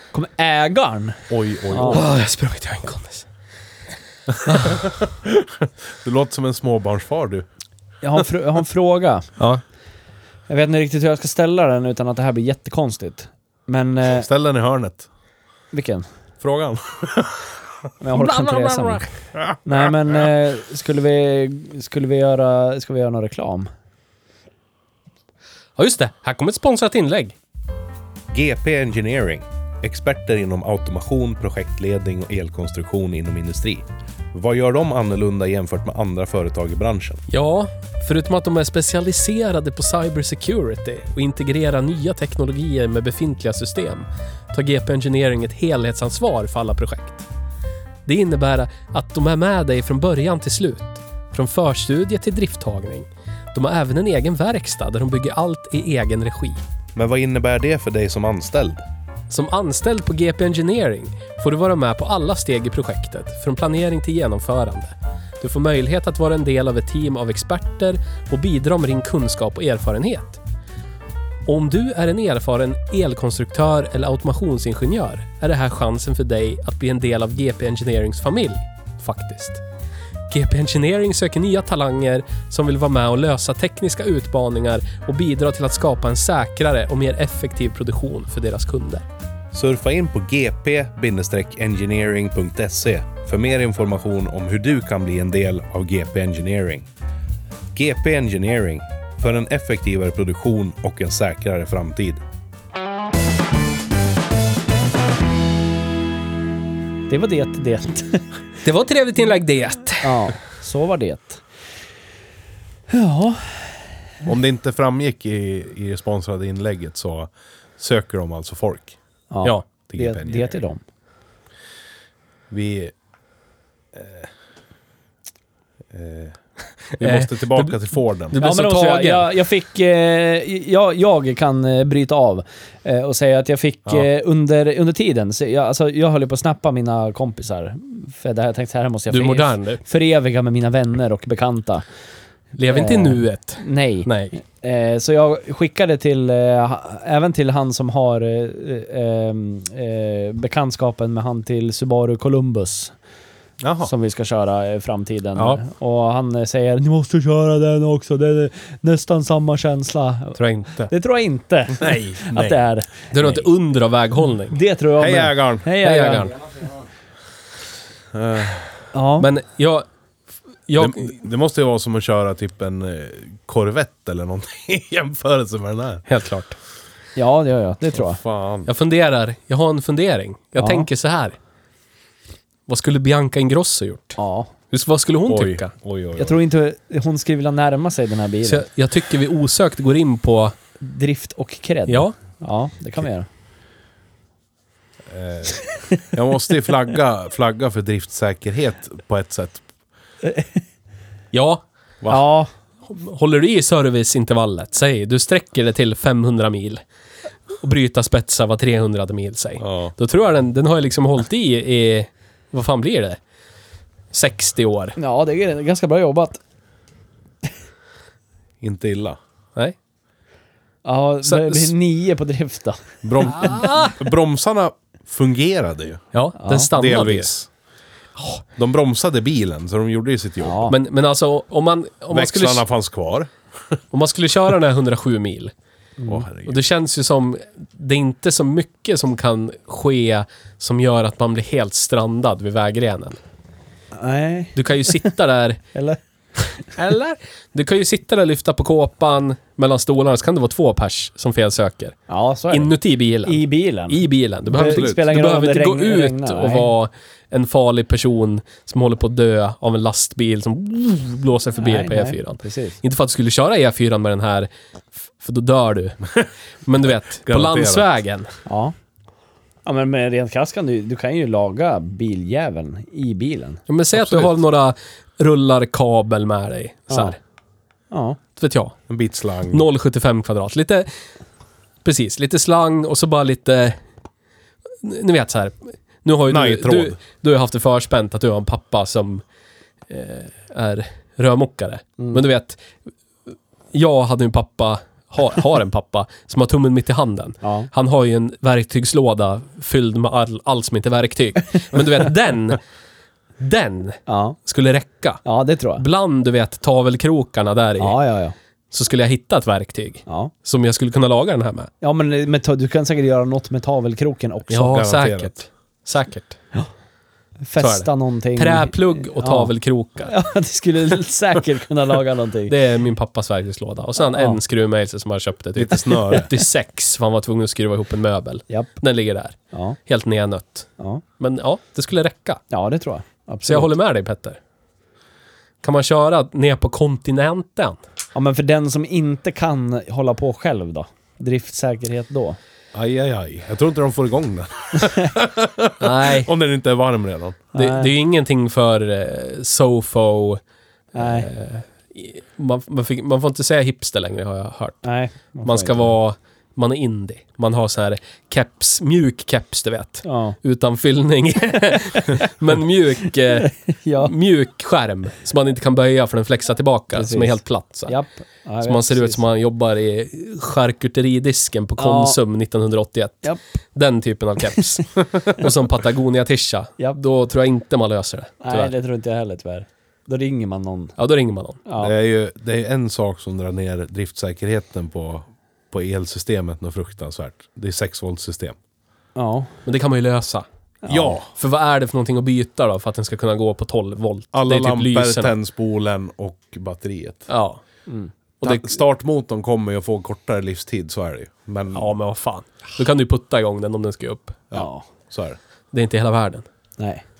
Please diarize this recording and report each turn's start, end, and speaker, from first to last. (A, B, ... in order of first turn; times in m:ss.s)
0:00.1-0:02.0 A
0:01.3-0:02.0 B
0:01.9-0:03.2 C
0:04.3-0:07.4 B
0:04.5-0:04.8 C
0:08.0-0:09.3 A
0:10.5-0:14.3 A
0:14.1-0:15.0 B
0:15.7-0:16.0 A
0:16.4-0:17.5 B
0:18.0-0:19.1 A
0:18.1-0:19.0 C
0:19.6-0:23.7 A
0:25.8-0:27.4 C
0:28.3-0:37.2 B
0:37.3-0:47.2 C
0:48.0-0:56.6 C
0:57.0-0:58.8 B
0:59.3-1:10.4 C
1:11.4-1:19.6 C
1:20.3-1:29.0 C
1:29.5-1:36.9 B
1:37.7-1:42.2 B
1:47.1-1:48.2 A
1:48.6-1:50.3 C
1:50.0-1:51.4 A
1:52.9-1:53.8 A
1:54.2-1:59.0 B
1:59.3-2:00.8 A
1:59.9-2:00.6 B
2:02.5-2:02.9 B
2:03.9-2:04.3 B
2:05.9-2:06.4 B
2:07.0-2:08.4 B
2:07.0-2:07.7 C
2:08.3-2:09.3 C
2:08.4-2:21.8 A
2:19.1-2:19.8 C
2:22.6-2:24.3 C
2:22.7-2:32.9 A
2:33.6-2:33.9 B
2:33.8-2:40.4 A
2:40.4-2:40.9 C
2:40.9-2:43.0 A
2:41.8-2:42.6 B
2:43.1-2:44.6 C
2:44.5-2:46.3 A
2:45.0-2:45.7 B
2:45.8-2:46.4 C
2:48.1-2:48.8 B
2:48.9-2:49.3 A
2:49.2-2:49.8 C
2:50.7-2:51.1 C
2:50.8-2:56.0 B
2:56.1-2:56.6 C
2:57.2-2:58.2 A
2:57.9-2:58.7 B
2:58.6-3:01.4 C
3:00.6-3:00.9 A
3:02.7-3:04.2 C
3:04.2-3:04.5 A
3:04.7-3:05.7 C
3:05.3-3:06.4 B
3:06.2-3:08.6 A
3:08.4-3:10.5 C
3:10.8-3:13.3 A
3:11.9-3:12.1 C
3:15.1-3:19.6 B
3:21.3-3:21.6 C
3:22.1-3:22.5 A
3:22.9-3:26.8 C
3:27.6-3:33.2 C
3:29.6-3:29.9 B
3:34.1-3:35.0 C
3:35.0-3:36.4 A
3:38.6-3:39.2 B
3:40.8-3:42.8 A
3:41.2-3:41.7 C
3:43.0-3:46.0 B
3:43.3-3:44.0 C
3:46.1-3:47.3 C
3:46.4-3:46.7 A
3:46.7-3:47.5 B
3:48.6-3:50.7 B
3:50.4-3:50.8 A
3:50.7-3:52.6 C
3:52.1-3:53.3 B
3:53.9-3:55.5 C
3:56.0-3:56.2 A
3:56.1-3:56.6 B
3:56.4-4:03.2 C
4:03.9-4:05.0 A
4:04.6-4:05.6 C
4:05.7-4:06.0 A
4:06.7-4:12.0 C
4:12.1-4:16.7 A
4:12.5-4:24.5 C
4:14.6-4:15.0 B
4:21.6-4:22.8 A
4:25.2-4:26.0 C
4:26.6-4:28.3 C
4:27.2-4:27.9 B
4:28.4-4:28.7 A
4:29.6-4:33.6 A
4:33.7-4:37.2 C
4:33.9-4:34.3 B
4:36.9-4:37.2 A
4:37.9-4:38.2 A
4:38.4-4:38.8 C
4:38.9-4:39.6 B
4:39.5-4:40.9 C
4:41.8-4:43.8 C
4:44.8-4:49.2 C
4:46.3-4:47.0 B
4:49.9-4:52.6 C
4:53.7-5:02.6 C
4:57.4-4:57.7 A
5:03.4-5:05.2 C
5:04.1-5:04.4 A
5:05.2-5:05.8 A
5:05.8-5:08.0 C
5:07.8-5:08.3 A
5:08.7-5:11.7 C
5:10.1-5:10.3 A
5:11.8-5:14.8 A
5:14.5-5:16.4 C
5:14.6-5:15.4 B
5:17.4-5:19.5 A
5:17.6-5:20.1 C
5:20.0-5:22.5 A
5:22.5-5:30.7 C
5:24.1-5:24.4 A
5:25.5-5:26.3 B
5:31.2-5:32.4 C
5:32.5-5:33.7 A
5:33.4-5:34.4 C
5:35.6-5:37.8 C
5:38.1-5:42.4 A
5:42.7-5:47.5 B
5:45.8-5:46.3 C
5:47.5-5:47.9 A
5:47.5-5:50.4 C
5:50.9-5:51.3 A
5:51.0-5:54.9 C
5:54.8-5:55.9 A
5:55.4-6:07.9 C
6:00.0-6:00.4 A
6:03.4-6:04.1 A
6:06.9-6:09.2 A
6:08.6-6:18.7 C
6:11.8-6:12.2 A
6:18.4-6:20.9 A
6:21.0-6:21.6 C
6:21.7-6:21.9 A
6:21.8-6:28.6 B
6:29.2-6:29.5 A
6:29.6-6:30.4 C
6:30.8-6:31.2 A
6:30.9-6:31.3 B
6:31.3-6:35.3 C
6:34.3-6:37.3 B
6:37.3-6:37.6 C
6:38.4-6:38.7 C
6:38.4-6:41.9 B
6:41.7-6:44.4 C
6:44.5-6:45.4 B
6:44.5-6:44.8 A
6:45.7-6:46.4 C